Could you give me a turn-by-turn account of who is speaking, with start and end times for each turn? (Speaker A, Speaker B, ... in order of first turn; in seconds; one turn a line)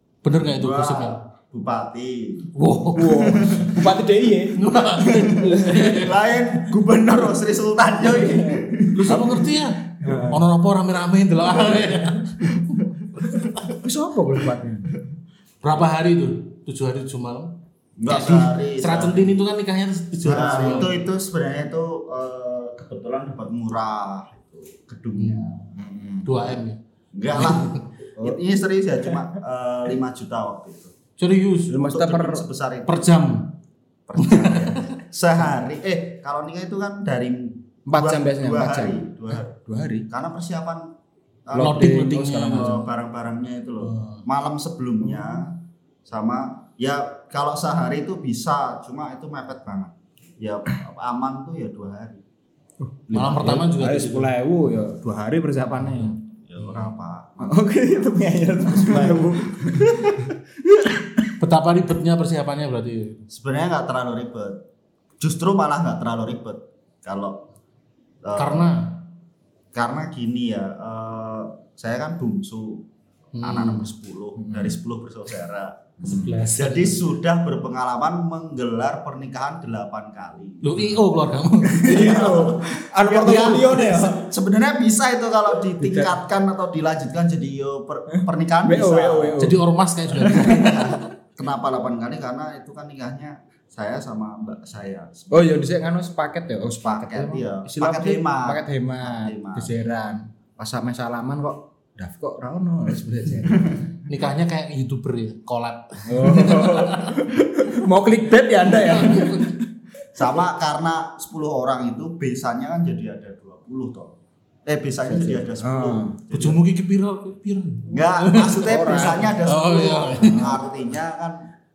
Speaker A: 0.2-1.2
Speaker B: 0.4-2.5
Speaker A: 2.5-3.5
Speaker C: 2.9-6.0
Speaker B: 3.2-4.0
Speaker A: 4.5-6.1
Speaker B: 4.9-9.2
Speaker C: 7.9-9.4
Speaker A: 8.9-12.7
Speaker C: 10.0-10.4
Speaker B: 13.2-13.7
Speaker C: 13.8-14.9
Speaker A: 15.6-17.6
Speaker B: 18.0-19.4
Speaker A: 18.1-20.9
Speaker B: 20.2-25.7
Speaker C: 20.3-20.9
Speaker A: 25.1-25.5
Speaker C: 25.7-26.3
Speaker A: 26.2-26.8
Speaker B: 27.1-30.9
Speaker A: 27.3-27.9
Speaker A: 31.2-31.8
Speaker C: 31.7-32.4
Speaker B: 31.8-33.2
Speaker A: 32.9-33.5
Speaker B: 34.1-39.5
Speaker A: 34.2-34.9
Speaker C: 37.9-40.1
Speaker B: 40.1-40.9
Speaker B: 41.5-52.2
Speaker C: 41.5-42.9
Speaker A: 41.5-42.8
Speaker A: 43.8-44.2
Speaker C: 45.0-45.4
Speaker C: 52.8-56.1
Speaker A: 53.1-54.3
Speaker A: 56.0-56.9
Speaker B: 56.5-57.5
Speaker C: 57.4-61.3
Speaker B: 58.6-60.1
Speaker A: 61.4-63.2
Speaker B: 63.3-64.6
Speaker B: 65.2-67.4
Speaker B: 68.2-68.7
Speaker A: 68.3-69.0
Speaker B: 69.7-72.8
Speaker A: 73.4-73.9
Speaker B: 73.4-80.7
Speaker C: 74.4-74.8
Speaker A: 76.0-77.0
Speaker A: 80.6-81.9
Speaker B: 81.7-89.4
Speaker C: 81.8-84.3
Speaker C: 85.8-86.2
Speaker C: 88.1-89.6
Speaker A: 89.4-91.0
Speaker B: 90.2-95.6
Speaker C: 95.3-103.8
Speaker B: 96.8-99.7
Speaker B: 103.5-103.8
Speaker A: 104.1-107.2
Speaker C: 106.1-109.7
Speaker A: 108.6-109.6
Speaker B: 110.1-114.1
Speaker B: 114.7-116.6
Speaker C: 115.0-116.2
Speaker A: 116.3-120.6
Speaker B: 117.9-121.5
Speaker C: 118.6-119.4
Speaker C: 120.3-120.7